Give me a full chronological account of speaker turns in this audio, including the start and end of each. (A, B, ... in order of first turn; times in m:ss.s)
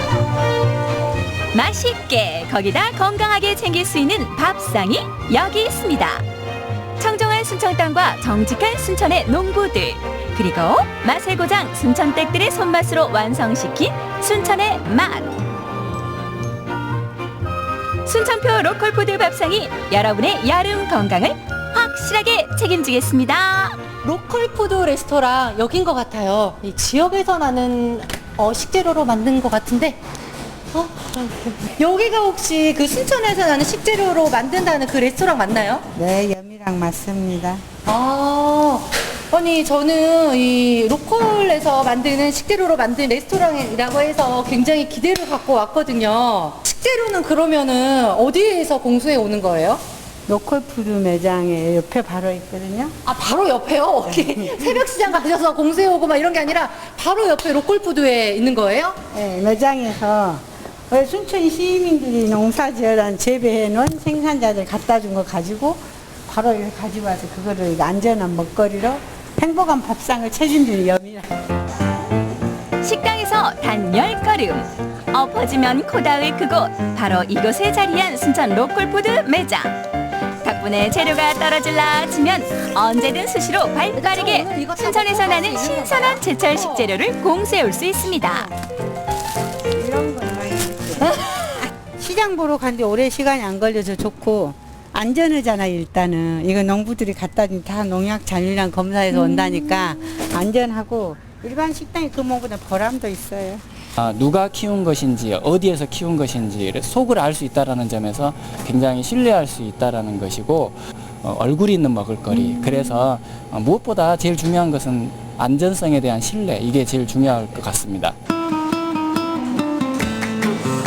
0:01.5-0:06.2 A
0:07.0-0:15.3 A
0:18.0-0:23.8 A
0:24.0-0:30.0 B
0:30.7-0:35.8 B
0:35.9-0:37.6 C
0:37.9-0:49.8 B
0:50.3-0:53.0 C
0:53.0-0:59.0 B
0:54.1-0:54.8 C
0:59.1-1:11.3 C
1:12.8-1:19.8 A
1:20.4-1:28.5 A
1:23.9-1:26.9 B
1:29.8-1:43.6 C
1:44.0-1:58.2 D